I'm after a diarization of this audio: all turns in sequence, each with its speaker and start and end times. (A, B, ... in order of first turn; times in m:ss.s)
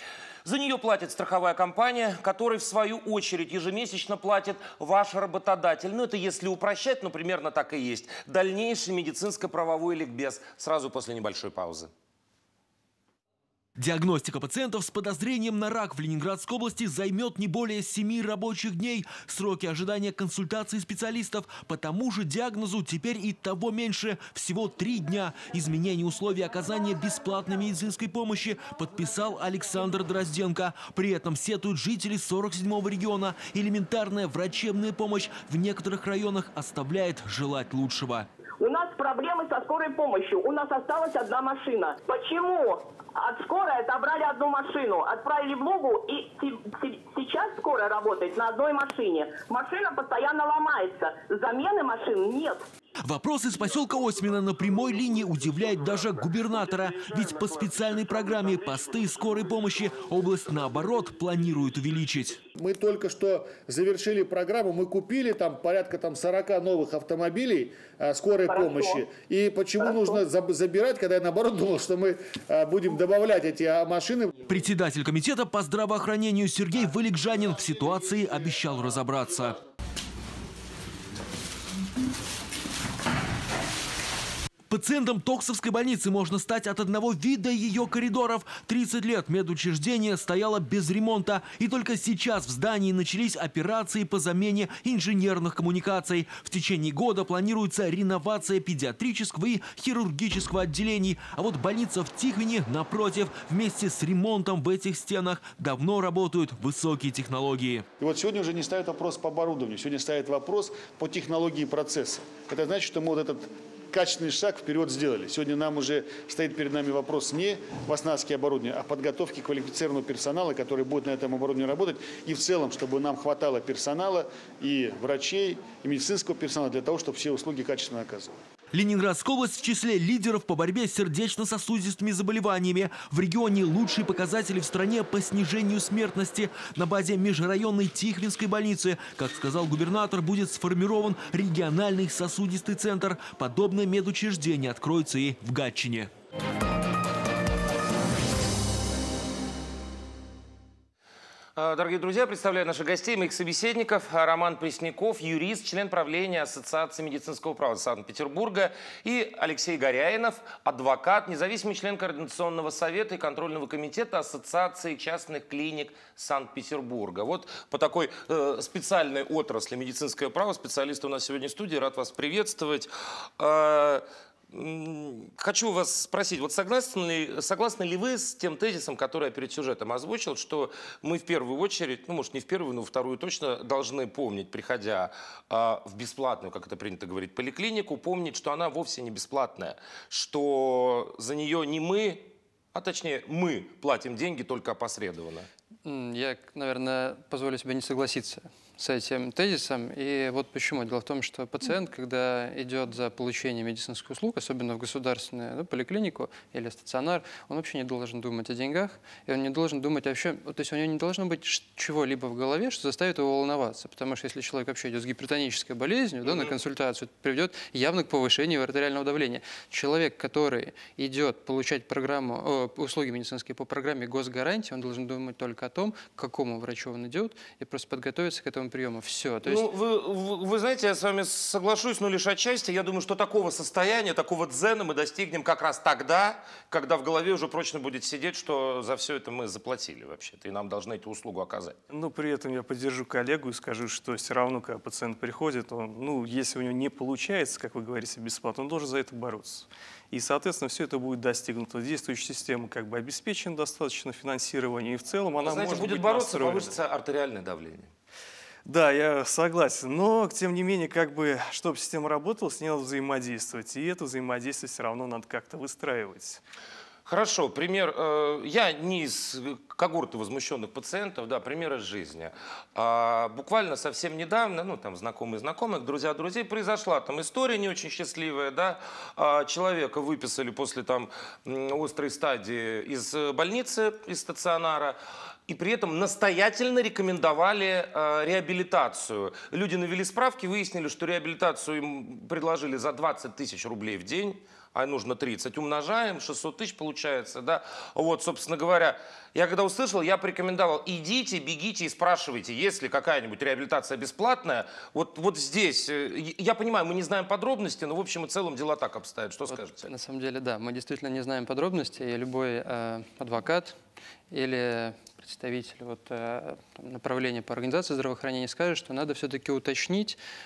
0:00.4-0:11.9 A
0:13.8-0:38.3 B
0:38.6-0:52.6 C
0:53.0-1:02.4 B
1:02.5-1:14.4 D
1:08.5-1:09.0 C
1:09.8-1:10.1 C
1:14.5-1:19.6 B
1:24.7-1:47.8 B
1:48.0-2:08.3 D
2:08.7-2:26.1 B
2:31.6-3:15.5 A
3:15.8-3:49.7 E
3:36.2-3:36.5 A
3:49.4-4:01.8 A
4:01.9-4:16.8 F
4:15.4-4:17.9 A
4:18.6-4:26.4 F
4:27.0-5:09.9 A
5:09.5-5:13.8 E
5:14.3-5:20.2 E